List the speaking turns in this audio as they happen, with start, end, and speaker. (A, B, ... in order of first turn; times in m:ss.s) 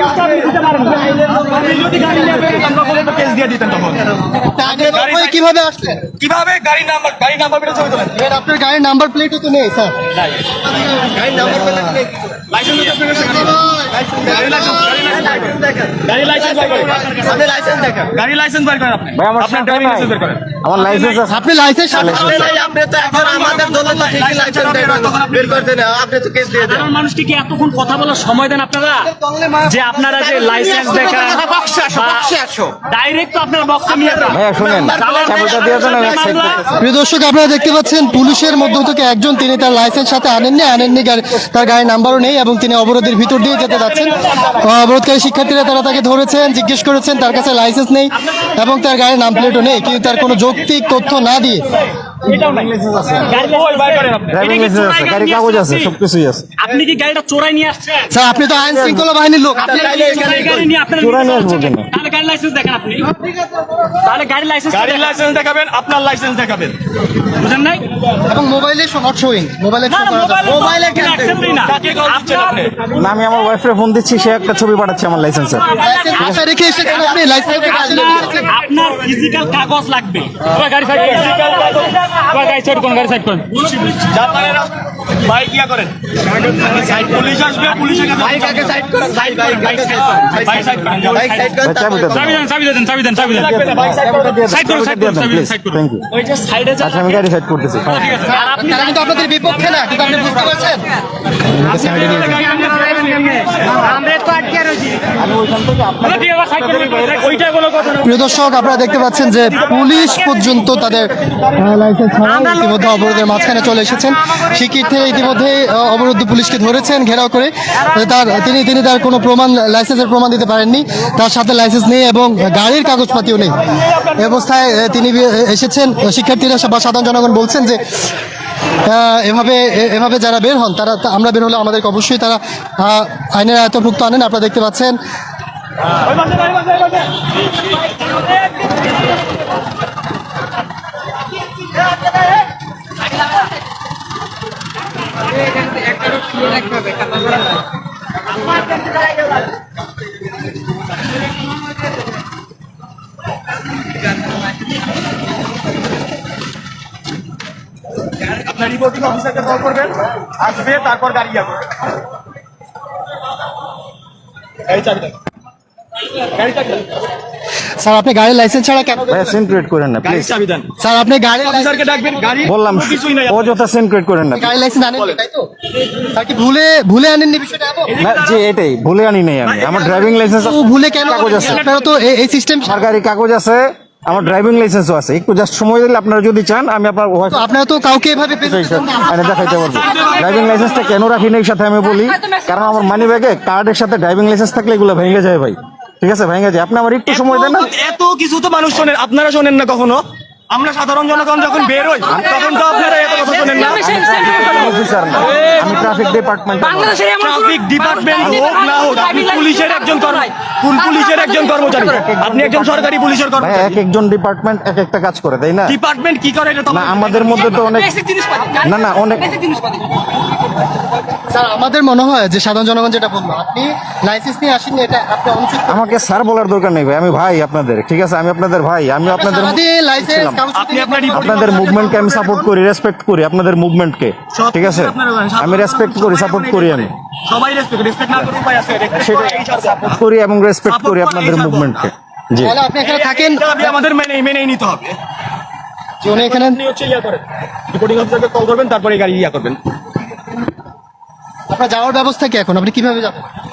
0:00.3-0:01.2 A
0:01.1-0:05.4 B
0:04.3-0:06.1 C
0:06.2-0:08.2 B
0:08.1-0:10.0 C
0:11.0-0:12.1 C
0:11.2-0:12.3 D
0:11.3-0:11.7 B
0:12.4-0:17.4 B
0:15.5-0:15.8 D
0:17.3-0:18.0 D
0:18.0-0:21.1 B
0:19.1-0:21.4 E
0:21.3-0:22.5 C
0:22.0-0:22.4 E
0:22.0-0:25.8 B
0:22.6-0:26.8 D
0:26.5-0:36.6 A
0:31.5-0:32.7 D
0:34.3-0:36.7 E
0:34.6-0:36.1 D
0:36.7-0:51.7 C
0:52.3-0:52.7 B
0:52.3-0:53.4 E
0:53.3-0:55.9 A
0:53.3-0:54.5 B
0:54.3-0:56.5 E
0:56.6-0:58.1 A
0:58.1-1:00.4 C
0:58.6-0:59.0 E
0:59.6-1:00.7 B
0:59.6-1:03.2 A
1:01.0-1:01.9 E
1:04.0-1:05.2 A
1:04.7-1:06.8 B
1:07.4-1:07.8 A
1:08.3-1:10.7 C
1:09.9-1:12.5 A
1:10.7-1:11.2 D
1:11.3-1:12.8 B
1:12.9-1:16.5 E
1:15.6-1:16.3 A
1:15.8-1:18.5 C
1:17.5-1:23.7 A
1:20.9-1:22.0 B
1:23.7-1:31.5 B
1:28.3-1:31.6 A
1:29.0-1:29.7 D
1:31.2-1:32.3 D
1:31.6-1:32.5 E
1:32.1-1:33.9 A
1:33.2-1:34.5 B
1:34.0-1:36.1 E
1:34.4-1:37.3 A
1:36.8-1:38.3 E
1:37.9-1:40.1 A
1:38.3-1:40.8 C
1:41.5-1:42.6 C
1:41.7-1:45.0 A
1:42.5-1:43.8 B
1:45.1-1:47.4 E
1:46.0-1:47.9 A
1:48.0-2:08.0 C
1:50.5-1:51.5 B
2:08.8-2:15.0 C
2:38.3-2:41.7 B
2:44.7-2:45.2 B
2:46.2-2:46.9 B
2:47.8-2:49.4 C
2:49.1-2:50.4 E
2:50.0-2:50.7 B
2:50.8-2:51.9 C
2:51.4-2:53.6 B
2:52.4-2:54.6 E
2:54.3-2:55.5 C
2:56.0-2:58.0 C
2:57.9-2:58.4 B
2:58.0-3:01.7 E
2:59.5-3:00.3 B
3:00.3-3:02.8 C
3:01.1-3:01.9 B
3:02.6-3:07.5 E
3:07.3-3:09.1 C
3:08.4-3:17.7 E
3:09.2-3:11.0 B
3:12.0-3:13.0 A
3:17.1-3:24.5 B
3:22.1-3:26.1 A
3:23.7-3:27.0 E
3:26.6-3:31.8 A
3:27.2-3:33.8 B
3:31.8-3:35.8 E
3:35.7-3:37.7 B
3:36.7-3:37.9 E
3:37.6-3:39.9 A
3:38.6-3:39.4 E
3:41.3-3:45.9 C
3:45.7-3:50.4 E
3:49.1-3:51.6 C
3:50.5-3:52.5 B
3:51.1-3:56.9 E
3:54.3-4:00.0 B
3:59.0-4:02.6 E
4:00.7-4:01.9 B
4:02.4-4:03.8 C
4:02.8-4:05.0 B
4:06.0-4:06.6 C
4:06.0-4:09.6 B
4:11.5-4:13.3 C